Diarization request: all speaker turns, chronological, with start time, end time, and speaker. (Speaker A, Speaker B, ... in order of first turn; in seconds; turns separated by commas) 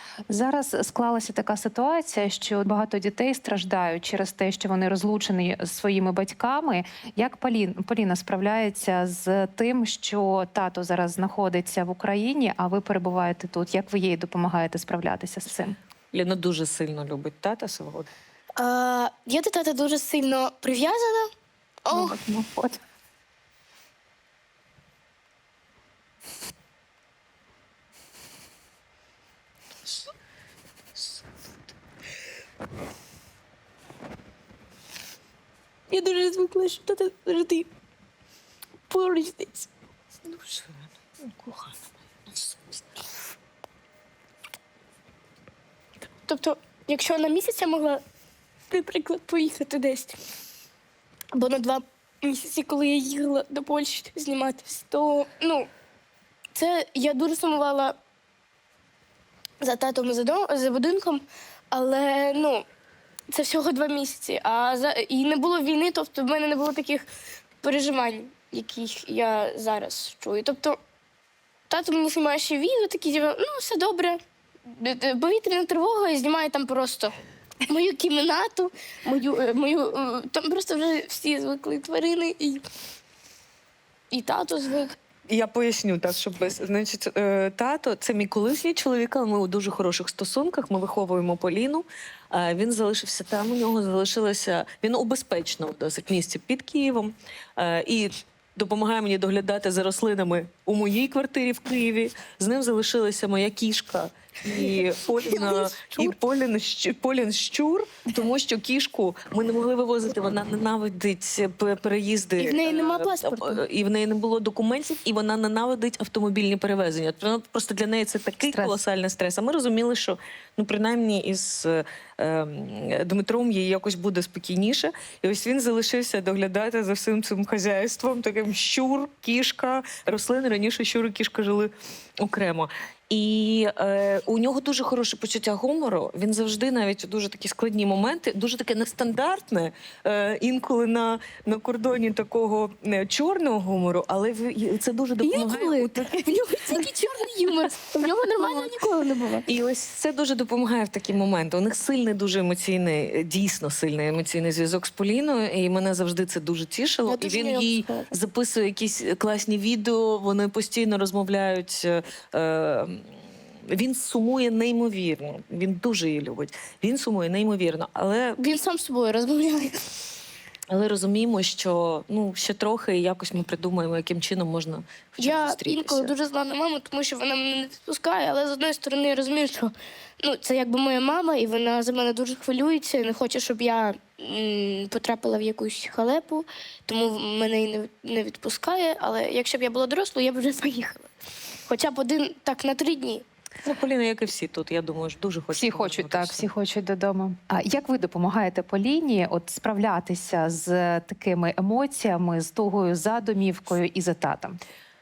Speaker A: 0.3-15.8, Speaker B: 16.1-18.1, Speaker C: 18.6-21.3, Speaker C: 21.8-22.2, Speaker A: 21.9-22.8, Speaker C: 35.9-37.7, Speaker C: 38.9-39.7, Speaker B: 40.3-40.6, Speaker B: 41.2-41.8, Speaker B: 42.3-42.8, Speaker C: 46.2-48.0, Speaker C: 48.7-50.2, Speaker C: 51.3-55.7, Speaker C: 56.5-58.0, Speaker C: 59.6-62.6, Speaker C: 63.3-67.0, Speaker C: 67.6-70.8, Speaker C: 71.7-77.1, Speaker C: 77.7-82.6, Speaker C: 84.1-85.0, Speaker B: 85.3-146.2, Speaker C: 104.5-106.1, Speaker C: 112.4-113.6, Speaker A: 118.5-118.8, Speaker C: 145.2-149.4, Speaker B: 148.4-148.7, Speaker B: 149.4-163.1, Speaker C: 157.1-158.1, Speaker B: 163.7-168.4, Speaker C: 168.4-169.8, Speaker B: 170.7-176.1, Speaker C: 175.2-191.1, Speaker C: 191.7-193.2, Speaker B: 193.6-196.5, Speaker A: 195.5-204.6